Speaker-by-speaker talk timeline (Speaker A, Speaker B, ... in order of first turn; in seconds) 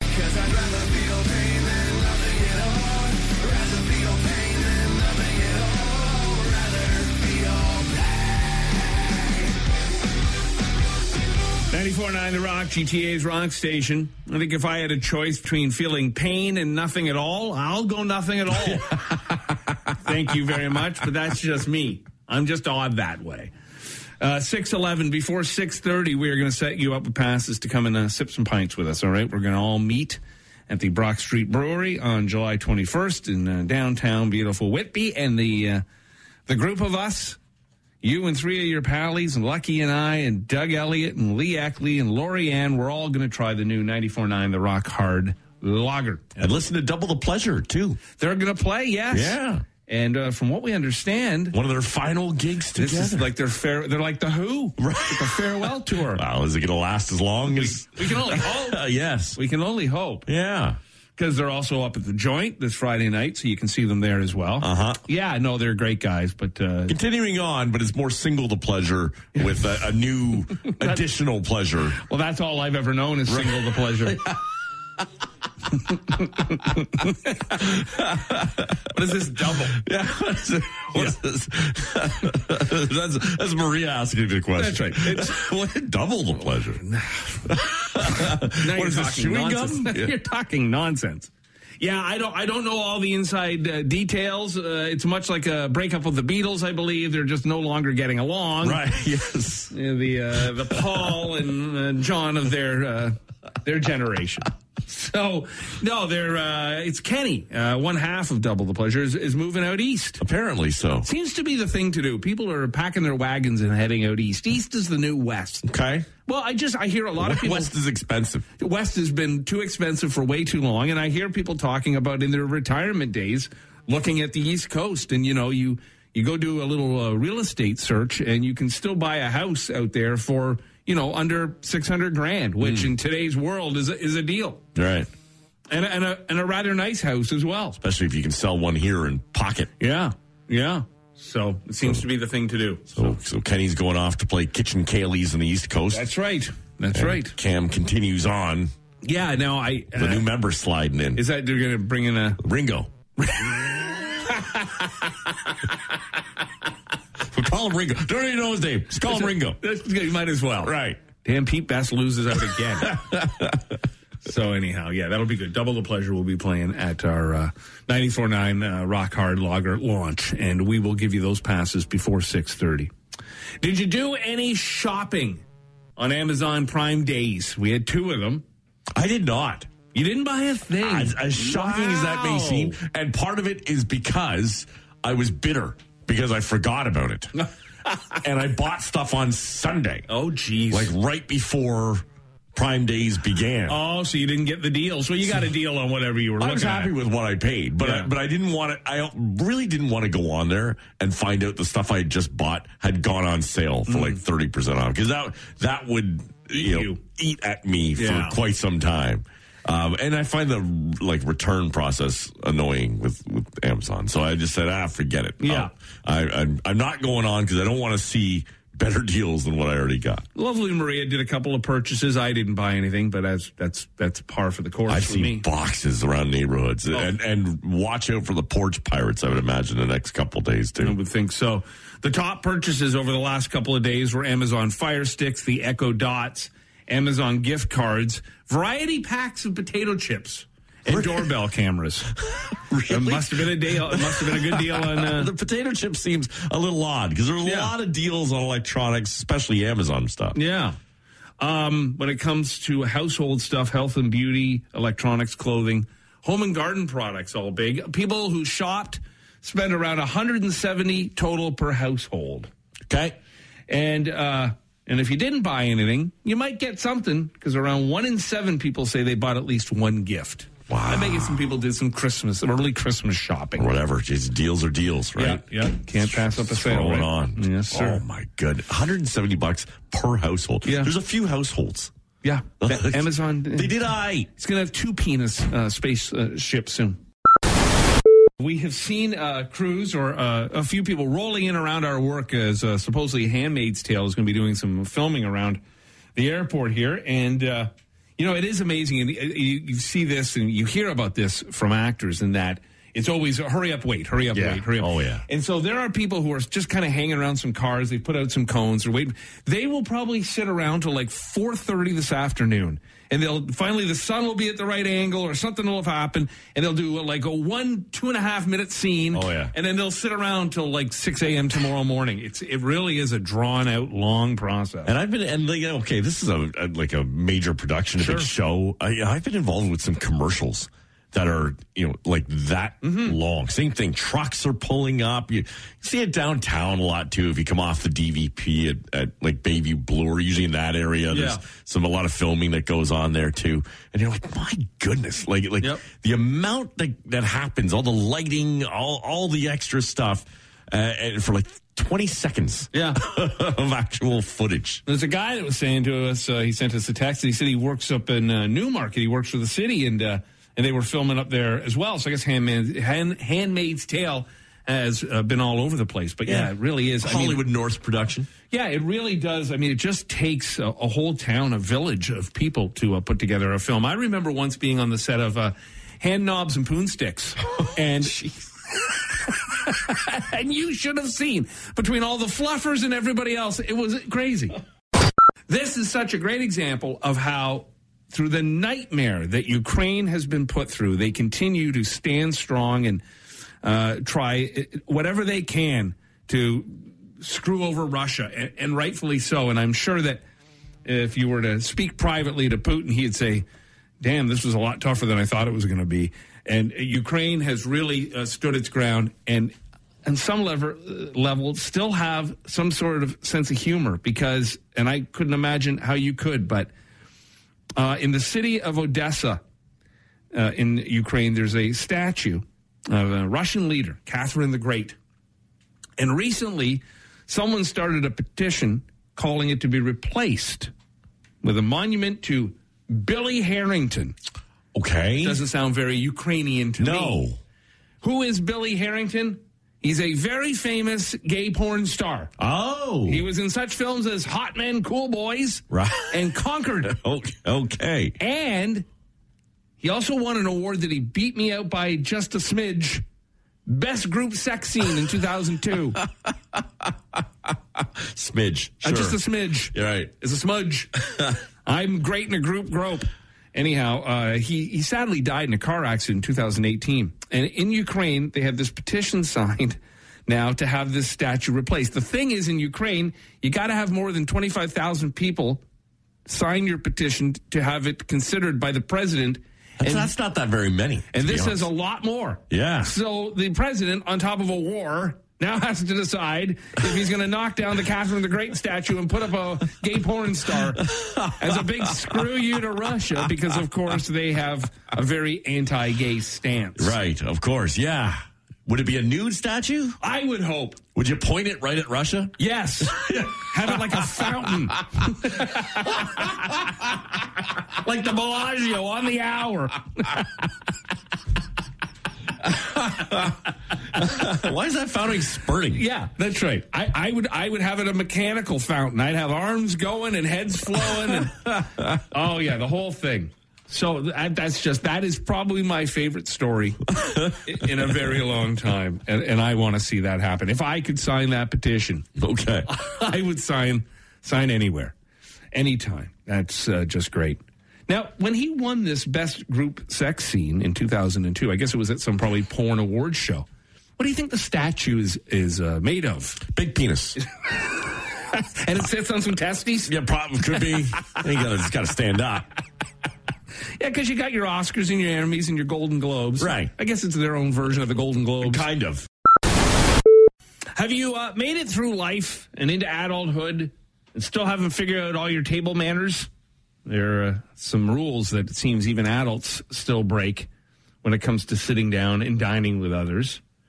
Speaker A: 0.2-8.0, 11.7-19.1, 20.0-23.5, 24.2-35.8, 36.5-37.4, 38.0-46.6, 48.2-51.5, 52.7-56.2, 57.5-58.8, 59.3-60.3, 61.2-67.0, 72.0-74.2, 76.0-77.7, 78.9-79.8, 84.5-85.4, 86.8-87.5, 88.0-98.8, 99.7-110.2, 111.0-115.7, 116.2-117.7, 118.6-134.6, 135.7-137.8, 139.8-143.1, 145.9-147.3, 149.0-150.3, 151.2-152.4, 153.2-155.7, 159.1-163.1, 164.2-172.9, 173.6-175.4, 176.0-178.4, 179.9-182.8, 190.1-190.9, 193.7-196.9, 197.8-198.1, 203.9-204.2, 206.5-207.0, 207.9-208.4, 215.4-215.7, 220.3-225.4, 230.8-242.1, 242.9-245.3, 247.4-247.7, 250.3-250.8, 251.4-262.5, 263.7-273.7, 275.1-278.0, 280.6-280.9, 282.2-283.8, 284.3-287.0, 288.4-295.6, 296.1-324.9, 328.0-328.3, 332.8-333.1, 341.1-341.4, 352.7-353.0, 354.9-367.4, 368.5-384.6, 385.5-393.0, 393.6-400.2, 400.9-403.4, 404.0-409.5, 410.1-416.7, 417.8-419.4, 420.3-425.0, 426.0-430.7, 431.4-434.1, 435.2-437.2, 438.0-442.3, 443.1-446.9, 448.2-448.8, 449.8-453.0, 453.7-456.0, 458.8-461.1, 461.6-475.6, 476.2-480.1, 481.1-496.9, 500.0-500.8, 502.4-506.9, 507.7-510.5, 515.7-532.0, 532.7-534.9, 535.5-543.4, 544.0-546.4, 547.2-549.9, 553.8-558.6, 560.8-566.3, 566.9-570.5, 571.0-573.4
Speaker B: 18.8-19.3, 46.4-48.0, 49.1-49.6, 51.5-53.3, 54.8-59.4, 60.3-60.8, 64.6-65.0, 66.9-72.0, 73.3-74.4, 76.5-76.8, 77.5-86.8, 87.5-90.1, 98.6-99.7, 110.2-111.1, 115.6-116.1, 117.2-118.5, 132.6-132.9, 134.7-135.1, 137.8-139.7, 142.9-146.1, 146.9-148.7, 149.9-151.2, 152.4-152.9, 157.3-159.6, 160.6-161.0, 162.9-163.5, 178.9-179.7, 180.8-187.3, 188.2-190.1, 190.7-193.8, 196.4-220.2, 224.9-230.9, 240.9-241.3, 242.4-250.3, 262.9-263.2, 270.7-271.4, 273.6-281.9, 282.6-284.3, 304.3-305.2, 319.1-319.5, 324.9-354.8, 366.3-368.3, 434.7-435.4, 436.8-437.4, 442.4-443.2, 445.7-446.2, 446.9-448.2, 456.3-456.6, 457.8-459.2, 459.7-460.1, 479.8-481.7, 482.5-482.9, 490.8-492.2, 496.8-500.0, 500.9-502.4, 502.9-504.5, 512.9-513.3, 514.0-515.8, 526.9-527.8, 532.2-532.7, 546.5-547.2, 549.9-552.5, 556.4-556.7, 558.4-559.1